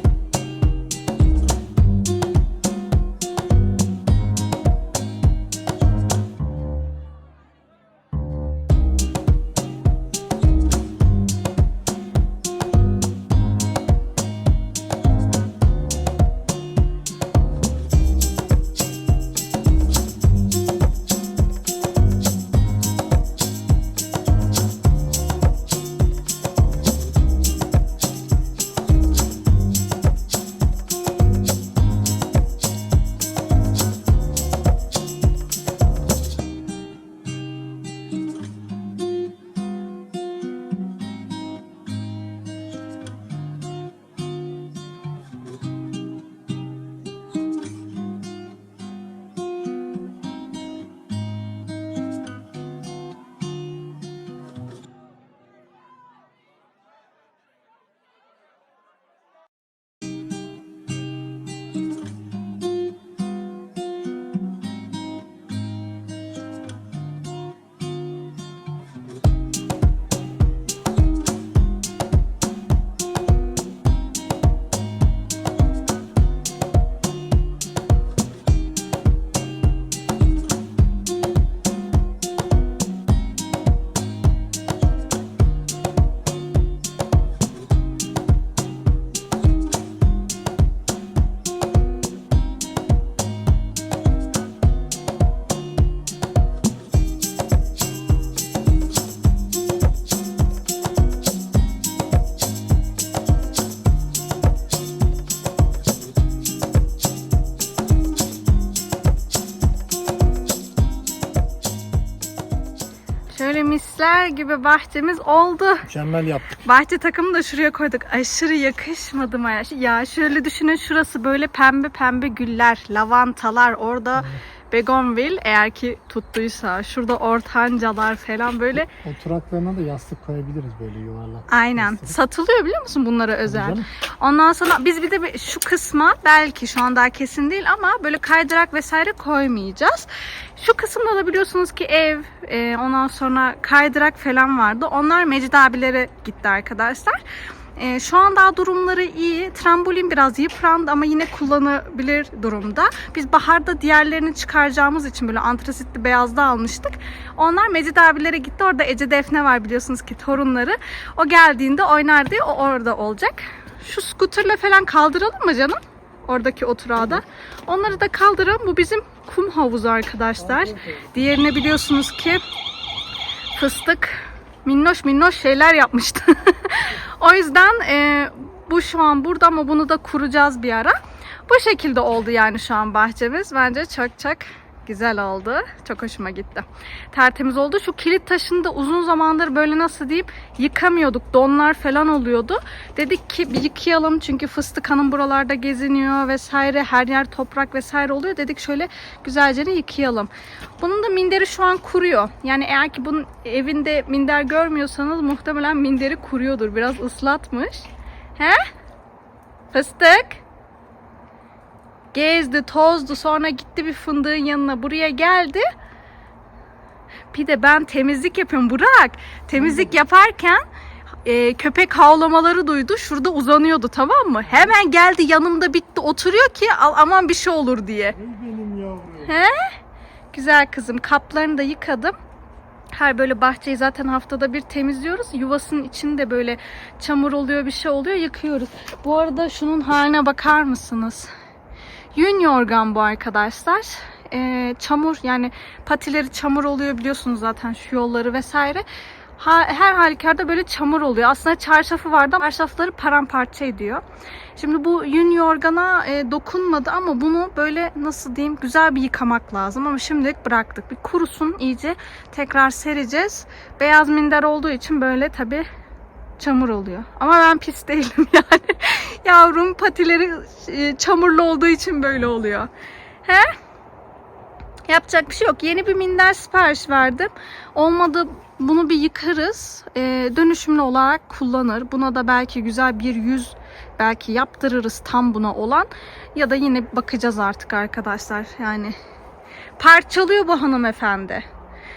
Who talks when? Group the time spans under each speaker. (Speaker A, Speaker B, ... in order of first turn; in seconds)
Speaker A: 113.3-115.9, 116.6-128.9, 131.5-147.2, 147.8-172.4, 173.5-208.6, 209.7-210.4, 212.1-215.6, 217.3-220.6, 221.2-228.2, 229.2-229.7, 230.3-232.1, 232.9-241.3, 242.1-248.8, 249.4-254.0, 254.6-265.7, 266.4-272.7, 274.9-288.9, 289.8-291.4
Speaker B: 115.8-116.6, 128.9-132.2, 133.4-133.9, 170.4-171.1, 219.5-220.0, 224.4-224.7, 228.1-229.4